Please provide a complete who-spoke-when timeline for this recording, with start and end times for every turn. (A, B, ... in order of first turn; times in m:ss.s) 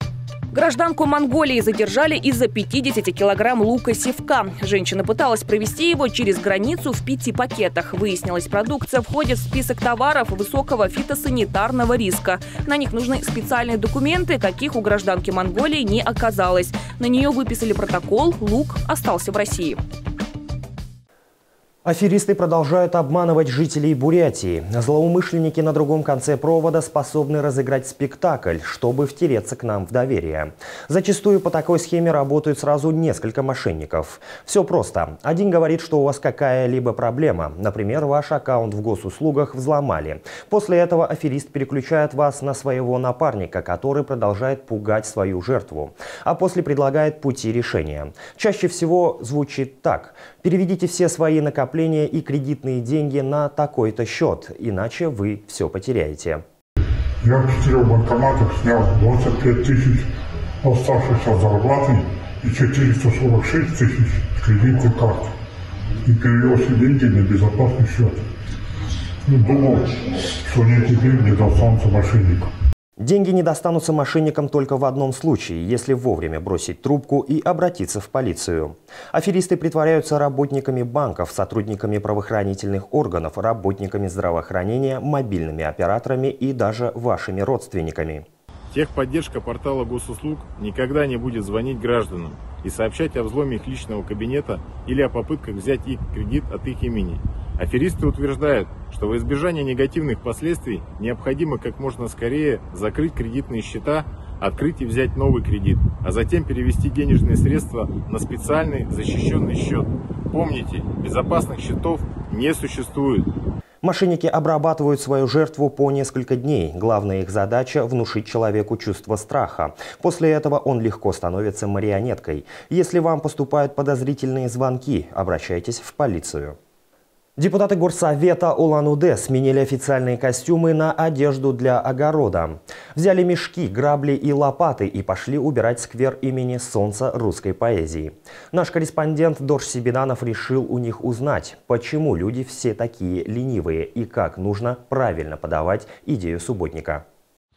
0:00.5-0:19.8 A
0:21.8-0:56.4 B
0:57.2-1:00.1 C
1:00.6-1:05.3 C
1:06.0-1:08.2 C
1:09.2-1:12.5 C
1:13.0-1:28.3 B
1:28.7-1:53.2 D
1:53.8-2:06.6 B
2:07.4-2:27.0 B